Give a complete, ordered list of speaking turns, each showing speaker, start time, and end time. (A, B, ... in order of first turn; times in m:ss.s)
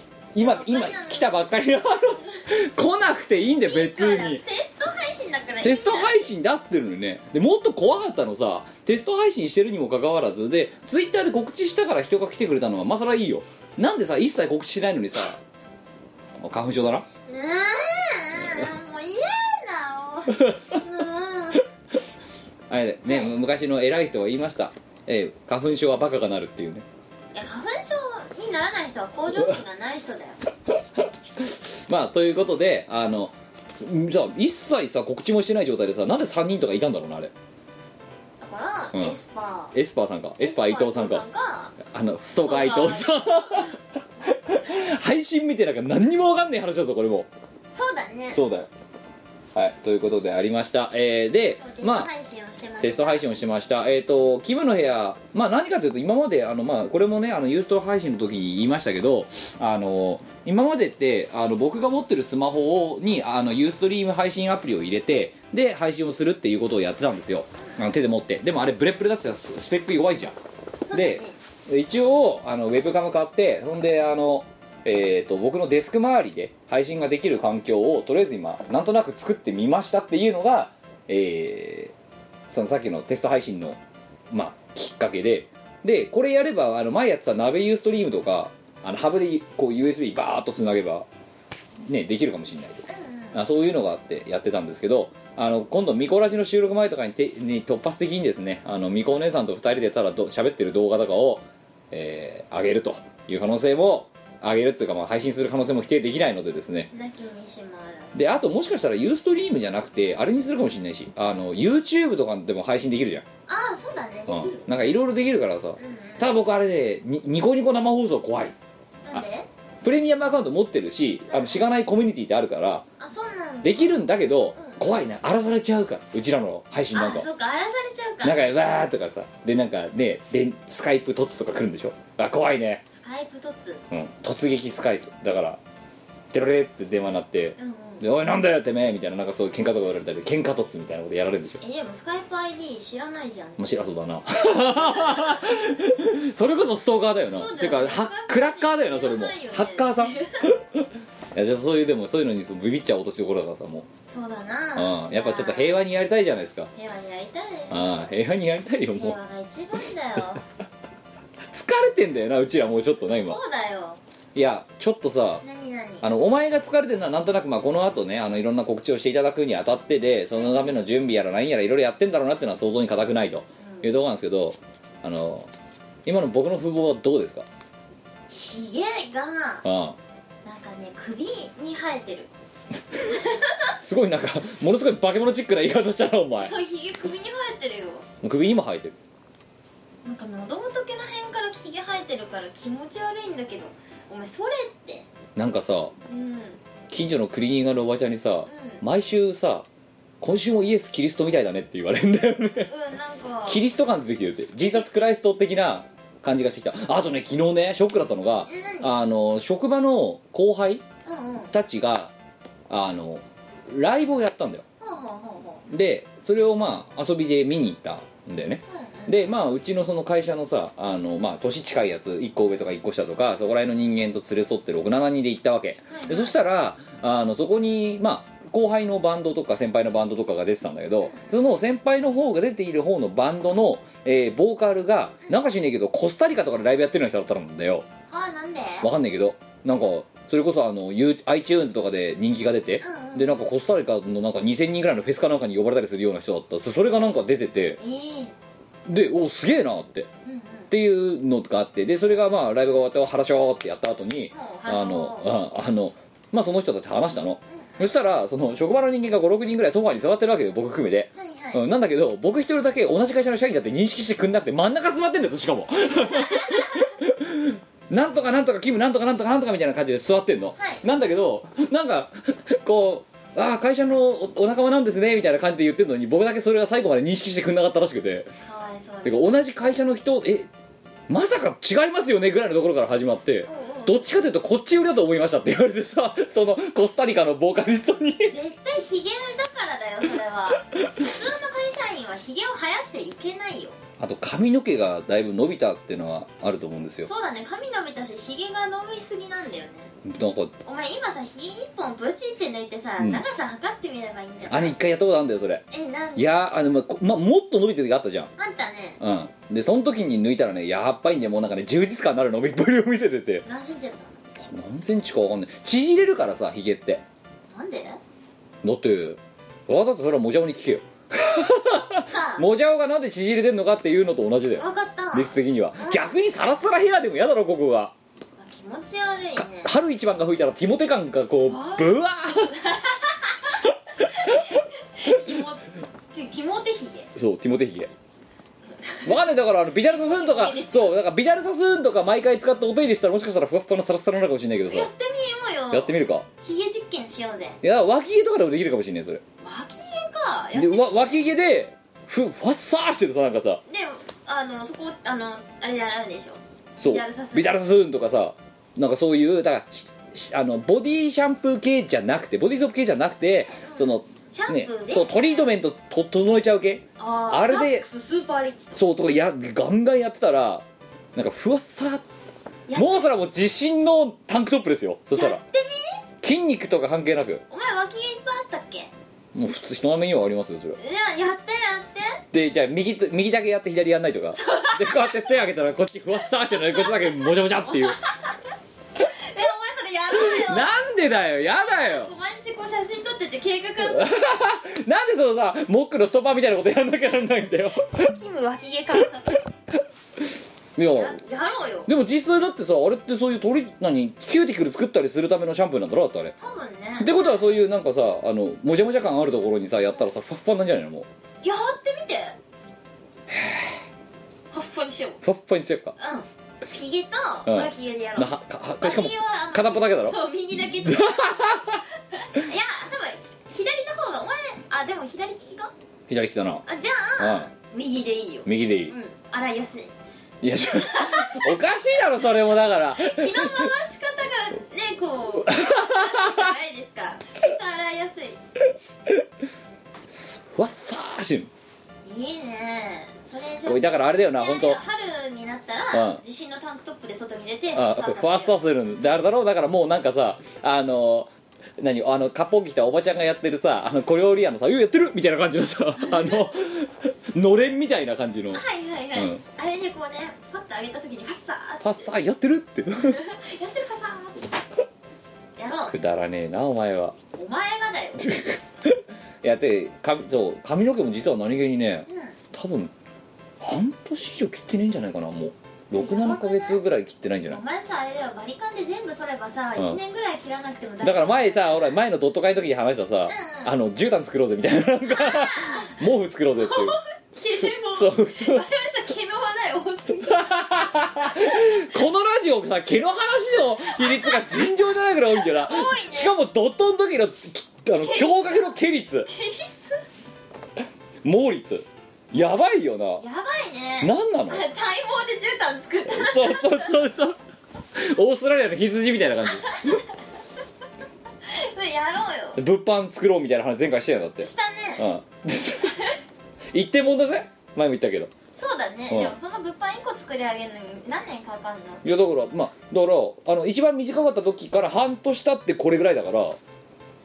0:00.3-0:04.4 A
0:00.4-0:01.5 B
0:03.6-0:06.3 B
0:05.6-0:15.4 A
0:16.4-0:17.0 A
0:17.2-0:21.7 B
0:18.4-0:18.7 A
0:22.7-0:26.8 A
0:23.1-0:23.3 B
0:27.3-0:30.4 B
0:31.0-0:37.3 A
0:38.4-0:39.7 B
0:39.7-0:41.2 A
0:40.4-0:41.8 B
0:41.8-0:43.7 A
0:42.4-0:43.7 B
0:44.3-0:47.3 A
0:47.7-0:48.4 B
0:48.3-0:48.7 A
0:49.5-0:52.1 A
0:51.6-0:53.3 B
0:52.8-1:10.3 A
1:10.8-1:11.4 B
1:10.9-1:21.9 A
1:22.5-1:23.8 A
1:24.3-1:31.1 A
1:31.8-1:46.9 A
1:32.9-1:33.4 B
1:46.9-1:48.1 B
1:48.1-1:53.2 A
1:53.5-1:54.7 B
1:54.3-1:58.5 A
1:55.8-1:56.3 B
1:59.0-1:59.5 B
1:59.8-2:02.8 A
2:01.3-2:01.7 B
2:03.0-2:04.0 B
2:03.6-2:07.3 A
2:04.5-2:04.9 B
2:06.9-2:08.4 B
2:08.2-2:12.8 A
2:12.8-2:13.8 B
2:13.9-2:15.6 A
2:16.3-2:21.6 A
2:17.6-2:18.1 B
2:21.6-2:23.7 B
2:23.6-2:33.9 A
2:24.8-2:25.3 B
2:27.3-2:30.4 B
2:34.0-2:35.8 B
2:34.8-2:36.7 A
2:36.7-2:37.9 B
2:37.7-2:39.2 A
2:39.0-2:40.4 B
2:41.5-2:43.4 A
2:43.1-2:44.0 B
2:44.3-2:45.4 A
2:45.4-2:46.1 B
2:46.0-2:55.5 A
2:50.4-2:50.9 B
2:53.6-2:53.9 B
2:56.0-2:57.4 A
2:58.3-2:59.6 B
2:59.6-3:00.0 A
3:00.4-3:02.3 B
3:03.1-3:03.7 B
3:03.7-3:06.5 A
3:06.4-3:08.1 B
3:08.2-3:09.0 A
3:10.0-3:15.0 B
3:15.4-3:15.9 A
3:16.1-3:16.6 B
3:16.9-3:19.6 A
3:18.5-3:18.8 B
3:20.2-3:22.7 A
3:22.7-3:23.6 B
3:23.5-3:30.8 A
3:24.7-3:25.0 B
3:28.4-3:28.9 B
3:31.0-3:31.5 B
3:31.5-3:32.1 A
3:32.7-3:34.6 A
3:34.8-3:35.6 B
3:35.7-3:57.8 A
3:38.7-3:39.2 B
3:45.9-3:46.4 B
3:51.0-3:51.4 B
3:58.1-3:58.9 B
3:58.8-4:07.8 A
4:02.8-4:03.5 B
4:07.8-4:08.3 B
4:08.9-4:10.1 A
4:10.2-4:10.7 B
4:10.7-4:38.3 A
4:14.3-4:15.4 B
4:17.5-4:18.0 B
4:21.1-4:21.6 B
4:26.0-4:26.8 B
4:30.6-4:30.8 B
4:38.4-4:39.3 B
4:39.0-4:40.5 A
4:41.1-4:48.4 A
4:43.4-4:44.0 B
4:48.3-4:53.8 B
4:54.0-4:57.1 A
4:57.0-4:59.9 B
5:00.0-5:00.5 A
5:00.6-5:04.8 B
5:03.0-5:03.2 A
5:04.5-5:08.3 A
5:05.7-5:06.3 B
5:08.4-5:09.0 B
5:09.0-5:13.4 A
5:13.4-5:14.2 B
5:14.4-5:17.0 A
5:17.5-5:18.0 B
5:18.6-5:27.9 A
5:21.3-5:22.5 B
5:24.5-5:26.1 B
5:28.4-5:29.7 B
5:29.3-5:32.6 A
5:31.3-5:37.1 B
5:37.1-5:37.9 A
5:39.0-5:44.9 A
5:40.0-5:41.0 B
5:44.7-5:47.6 B
5:45.7-5:46.2 A
5:47.6-5:49.2 A
5:49.4-5:51.2 B
5:50.5-5:53.6 A
5:53.7-5:57.5 B
5:56.8-6:07.9 A
6:03.5-6:05.5 B
6:07.0-6:08.9 B
6:08.7-6:12.0 A
6:12.7-6:13.1 B
6:12.7-6:15.4 A
6:15.1-6:16.0 B
6:16.2-6:17.4 A
6:17.5-6:18.9 B
6:19.3-6:20.8 A
6:20.8-6:22.2 B
6:22.3-6:28.0 A
6:24.3-6:25.3 B
6:26.2-6:28.4 B
6:29.0-6:34.1 B
6:30.1-6:32.1 A
6:33.8-6:38.1 A
6:37.8-6:39.5 B
6:40.8-6:41.2 A
6:40.9-6:41.9 B
6:41.8-6:46.3 A
6:46.4-6:47.5 B
6:47.0-6:51.1 A
6:51.4-6:52.4 B
6:53.3-6:53.8 A
6:54.5-6:55.2 B
6:55.2-6:56.0 A
6:56.0-7:01.4 B
6:57.4-7:00.2 A
7:00.8-7:01.8 A
7:02.1-7:05.7 B
7:06.1-7:06.6 A
7:06.6-7:09.9 B
7:07.2-7:07.5 A
7:08.4-7:08.9 A
7:10.4-7:13.7 A
7:10.8-7:11.6 B
7:13.0-7:18.4 B
7:15.4-7:16.5 A
7:20.1-7:21.5 A
7:22.0-7:28.6 B
7:23.3-7:24.8 A
7:25.9-7:26.2 A
7:27.7-7:38.6 A
7:38.5-7:42.1 B
7:39.1-7:39.4 A
7:41.8-7:43.2 A
7:43.0-7:44.5 B
7:45.6-7:46.0 B
7:45.9-7:47.2 A
7:47.3-7:48.4 B
7:48.2-7:52.9 A
7:52.1-7:52.4 B
7:53.6-7:57.6 A
7:55.9-7:56.8 B
7:57.5-8:02.0 B
8:01.0-8:07.0 A
8:03.3-8:03.7 B
8:05.0-8:06.0 B
8:06.6-8:11.9 B
8:07.6-8:08.6 A
8:10.2-8:19.3 A
8:13.9-8:14.7 B
8:15.3-8:16.4 B
8:17.9-8:20.0 B
8:21.2-8:23.2 A
8:23.2-8:27.0 B
8:24.0-8:24.6 A
8:26.0-8:27.4 A
8:27.9-8:30.0 A
8:29.5-8:30.0 B
8:31.4-8:32.6 B
8:32.6-8:36.0 A
8:34.4-8:35.0 B
8:35.8-8:36.2 B
8:36.7-8:38.3 A
8:38.5-8:42.0 B
8:39.1-8:39.3 A
8:42.0-8:46.6 A